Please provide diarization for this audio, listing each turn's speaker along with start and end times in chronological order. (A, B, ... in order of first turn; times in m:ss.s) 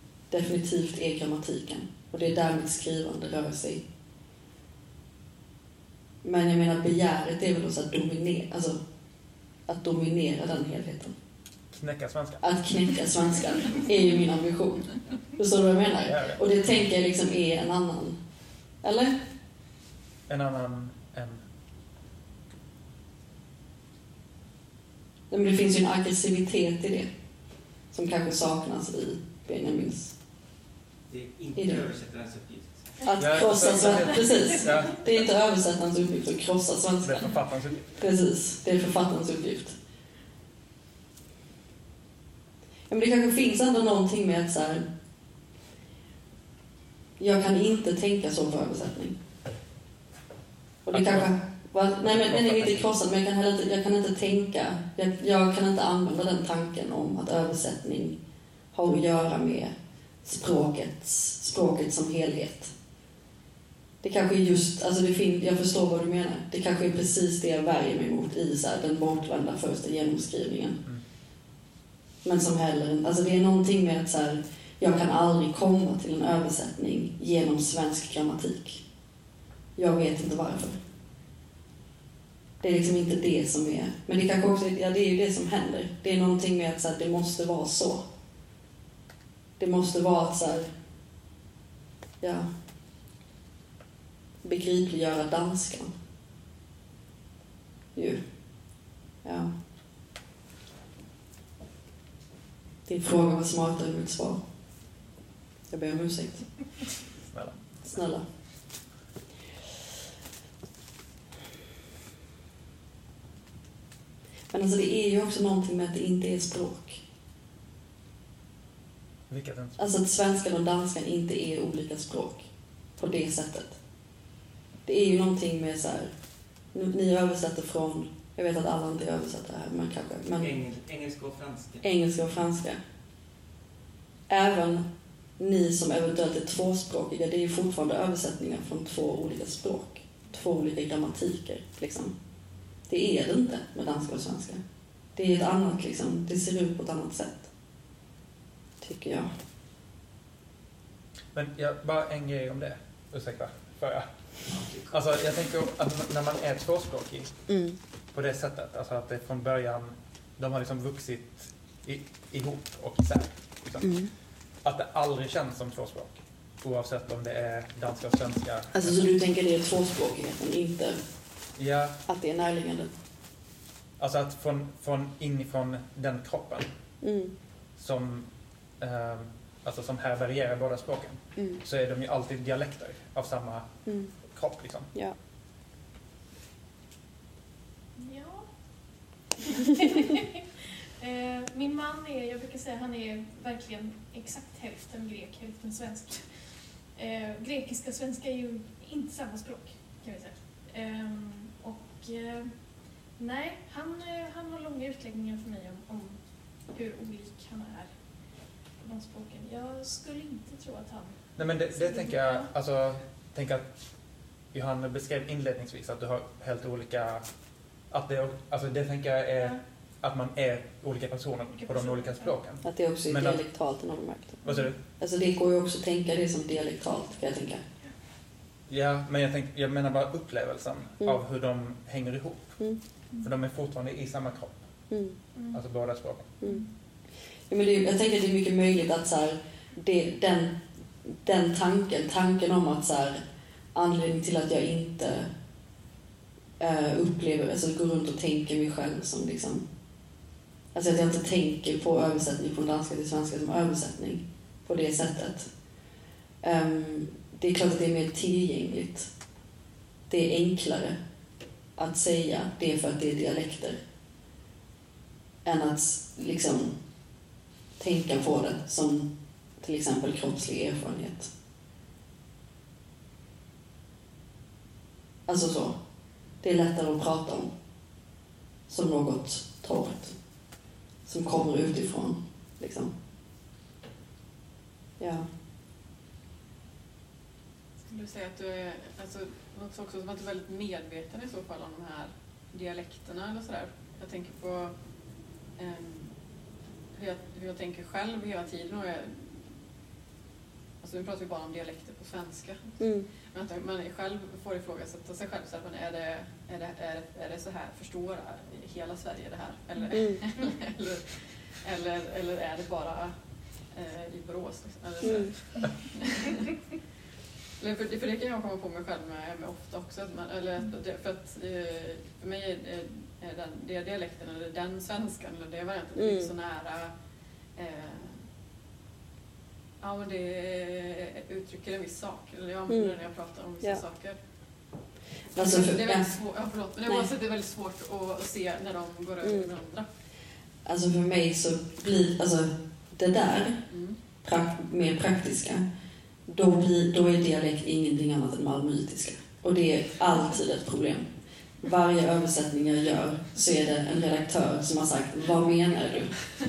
0:00.3-0:03.8 A
0:06.2-0:08.8 A
0:09.7-0:11.2 A
0:11.7-0:12.4 B
0:12.4-0:18.2 A
0:16.0-0:16.4 B
0:18.8-0:19.2 A
0:20.3-0:21.4 B
0:25.3-0:27.1 A
0:27.9-0:30.2 A
0:31.1-0:32.8 C
0:31.5-0:31.9 A
0:33.1-0:39.8 A
0:33.2-0:35.0 B
0:37.0-0:37.9 B
0:42.9-0:44.8 A
0:47.2-0:49.2 A
0:50.8-0:58.2 A
0:50.9-0:51.3 B
0:52.3-0:52.8 B
0:58.7-0:59.7 A
1:00.2-1:02.7 A
1:04.0-1:10.8 A
1:12.2-1:18.8 A
1:19.8-1:20.8 A
1:22.6-1:28.0 A
1:29.6-1:30.7 A
1:32.2-1:32.5 A
1:34.4-1:35.9 A
1:37.9-1:39.5 A
1:42.8-1:44.4 A
1:45.7-1:46.7 A
1:47.3-1:48.0 B
1:47.8-1:48.2 A
1:54.5-1:57.0 A
1:59.3-1:59.8 B
1:59.8-2:03.8 A
2:04.8-2:06.1 A
2:06.7-2:10.5 A
2:10.4-2:11.8 C
2:11.8-2:12.8 A
2:14.3-2:14.8 A
2:15.4-2:22.1 A
2:22.9-2:24.6 A
2:25.1-2:27.5 A
2:28.8-2:29.3 A
2:31.3-2:37.4 B
2:37.5-2:37.8 A
2:38.1-2:44.0 B
2:43.8-2:44.1 A
2:44.6-2:49.1 B
2:48.7-2:51.0 A
2:51.6-2:52.0 B
2:52.1-2:52.9 A
2:54.0-2:56.7 B
2:57.0-2:57.3 A
2:57.8-3:03.7 B
3:01.4-3:01.6 A
3:03.8-3:04.1 A
3:04.3-3:04.9 B
3:08.0-3:08.5 D
3:09.4-3:32.5 D
3:31.4-3:33.8 B
3:34.5-3:43.4 B
3:39.4-3:39.6 D
3:41.5-3:42.3 D
3:42.6-3:47.6 A
3:44.4-3:44.8 B
3:48.7-3:54.9 B
3:54.9-3:55.2 A
3:55.3-3:55.6 D
3:55.5-3:56.3 B
3:56.4-3:56.7 A
3:56.4-3:56.7 D
3:57.5-4:03.2 A
4:03.7-4:05.3 A
4:06.6-4:09.7 A
4:10.7-4:15.5 A
4:16.4-4:19.1 A
4:20.1-4:21.0 A
4:21.8-4:23.8 A
4:25.4-4:26.7 A
4:27.8-4:31.3 A
4:35.3-4:35.8 A
4:36.4-4:37.5 A
4:38.7-4:40.2 A
4:41.0-4:42.9 A
4:45.0-4:45.3 A
4:47.8-4:54.7 E
4:55.6-4:56.1 E
4:56.9-4:59.4 E
5:00.8-5:02.8 E
5:02.8-5:03.1 A
5:03.3-5:13.1 E
5:09.9-5:10.2 A
5:13.7-5:16.4 E
5:15.0-5:15.3 A
5:17.6-5:26.9 E
5:26.0-5:26.3 A
5:27.5-5:28.2 E
5:29.8-5:34.2 E
5:32.7-5:33.0 A
5:35.3-5:36.1 A
5:35.3-5:39.9 E
5:39.2-5:39.5 A
5:40.6-5:43.6 A
5:43.7-5:44.0 E
5:44.2-5:45.6 A
5:46.3-5:51.1 A
5:51.6-5:56.4 A